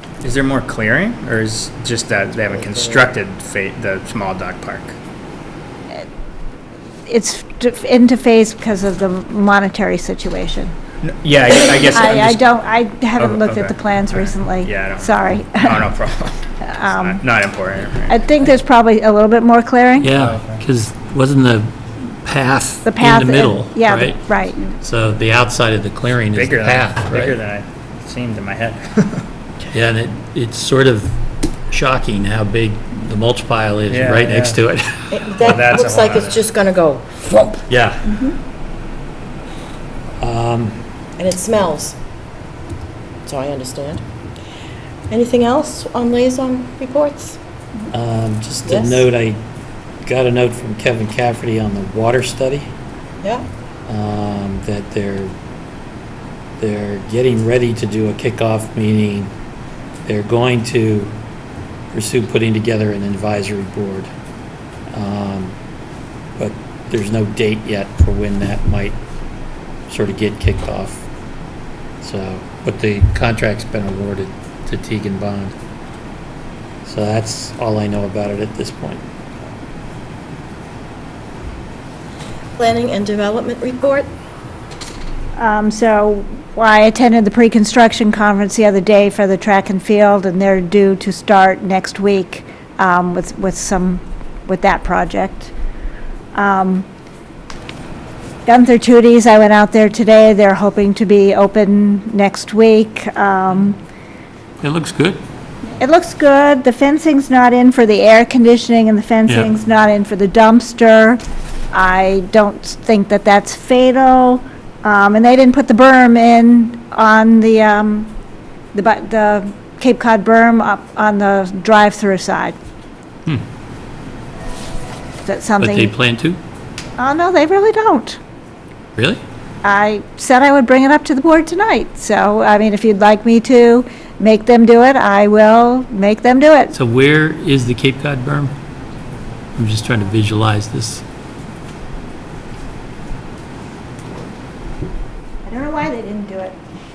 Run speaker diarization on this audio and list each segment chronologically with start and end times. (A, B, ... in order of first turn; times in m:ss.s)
0:00.2-0:05.0 A
0:02.6-0:03.0 B
0:07.1-0:10.7 C
0:11.0-0:12.4 A
0:11.9-0:15.8 C
0:13.2-0:18.2 A
0:16.6-0:17.2 C
0:18.1-0:20.1 C
0:20.0-0:24.2 D
0:20.2-0:20.6 A
0:22.8-0:24.6 C
0:24.8-0:27.4 D
0:26.3-0:29.3 A
0:29.7-0:35.6 D
0:33.9-0:34.6 A
0:35.1-0:37.5 B
0:35.4-0:36.4 A
0:37.7-0:38.2 D
0:40.2-0:40.8 D
0:41.2-0:42.0 B
0:43.2-0:44.0 B
0:45.1-0:47.4 B
0:47.9-0:49.4 D
0:48.7-0:49.1 B
0:50.0-0:52.7 D
0:53.9-0:55.3 D
0:56.6-0:59.3 D
1:00.0-1:01.1 D
1:01.9-1:04.1 D
1:04.9-1:05.6 D
1:06.4-1:09.0 D
1:09.9-1:11.0 D
1:12.0-1:15.6 D
1:16.8-1:19.0 D
1:22.6-1:24.1 B
1:25.4-1:35.5 C
1:36.3-1:36.9 C
1:38.4-1:43.8 C
1:44.6-1:45.2 D
1:45.8-1:58.1 C
1:58.7-2:02.6 C
2:05.2-2:05.9 C
2:05.6-2:06.4 D
2:07.0-2:08.2 C
2:09.0-2:09.2 D
2:09.6-2:16.8 C
2:16.7-2:18.5 D
2:19.6-2:21.0 D
2:25.4-2:26.6 C